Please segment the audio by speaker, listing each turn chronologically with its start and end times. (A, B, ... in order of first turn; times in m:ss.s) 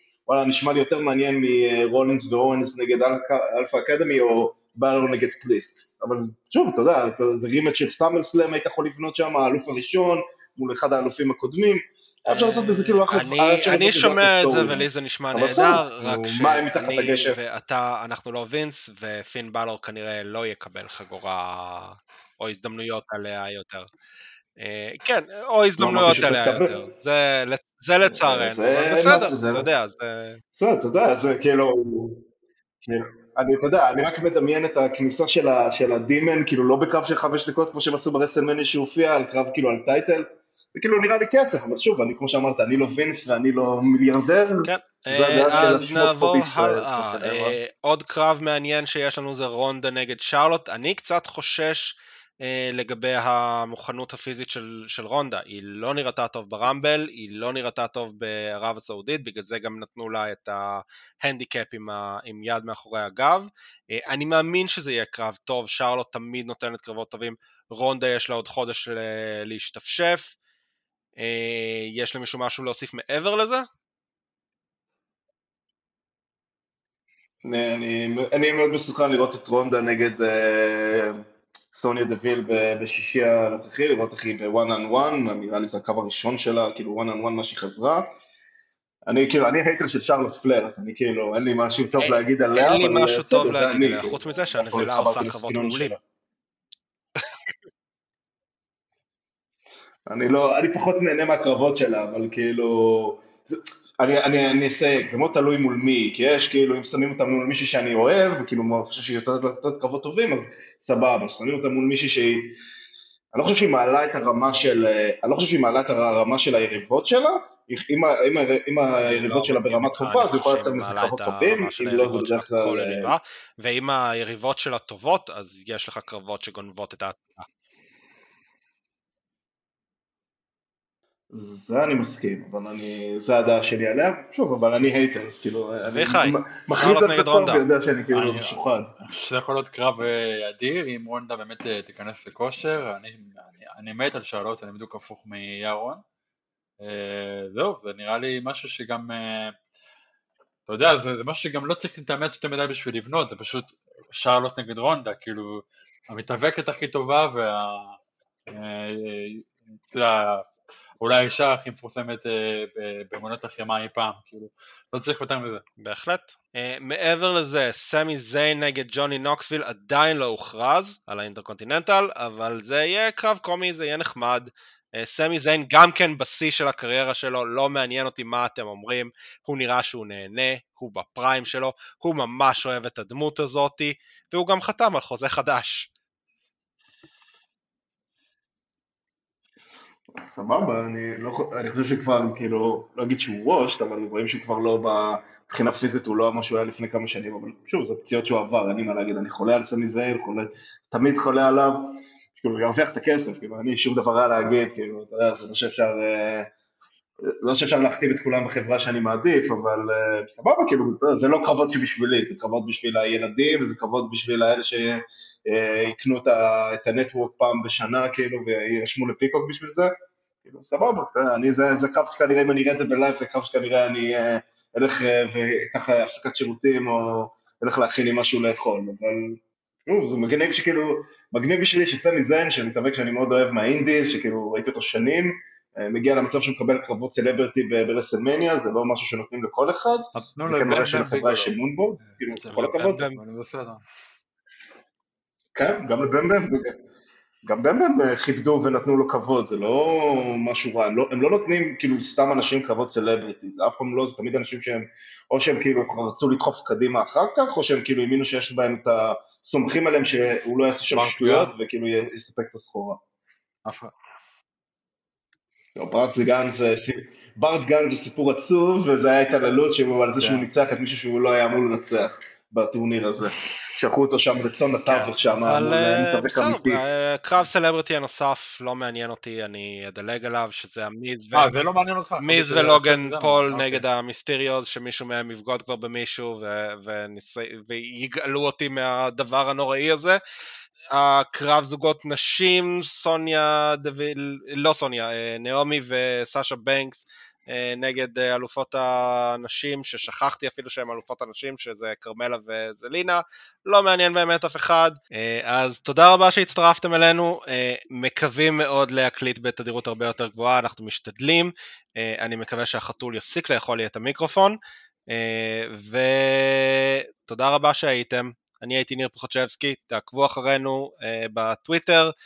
0:00.3-0:17.4 A
0:12.5-0:13.0 B
0:13.1-0:23.9 C
0:24.6-0:30.4 C
0:25.8-0:26.8 A
0:28.0-0:29.7 A
0:30.6-0:32.2 A
0:32.8-0:47.6 A
0:44.6-1:10.4 C
1:11.2-1:13.7 C
1:17.4-1:28.1 A
1:29.1-1:36.0 A
1:32.0-1:36.0 C
1:40.1-1:52.6 A
1:53.3-2:03.1 A
1:59.0-2:07.5 C
2:11.3-2:18.9 A
2:15.9-2:17.6 C
2:18.1-2:26.0 B
2:26.8-2:29.6 B
2:30.7-2:38.0 B
2:38.5-2:40.5 B
2:41.0-2:45.6 B
2:45.8-3:05.9 C
3:10.2-3:26.5 A
3:27.2-3:39.9 A
3:40.4-4:03.1 A
4:00.2-4:03.8 B
4:02.5-4:03.2 C
4:05.6-4:06.7 A
4:07.5-4:23.0 A
4:20.9-4:21.5 B
4:23.6-4:23.9 B
4:25.8-4:36.8 A
4:30.2-4:30.5 B
4:34.9-4:41.5 C
4:41.3-4:43.8 B
4:42.2-4:50.2 C
4:50.9-5:14.6 C
5:15.1-5:22.1 C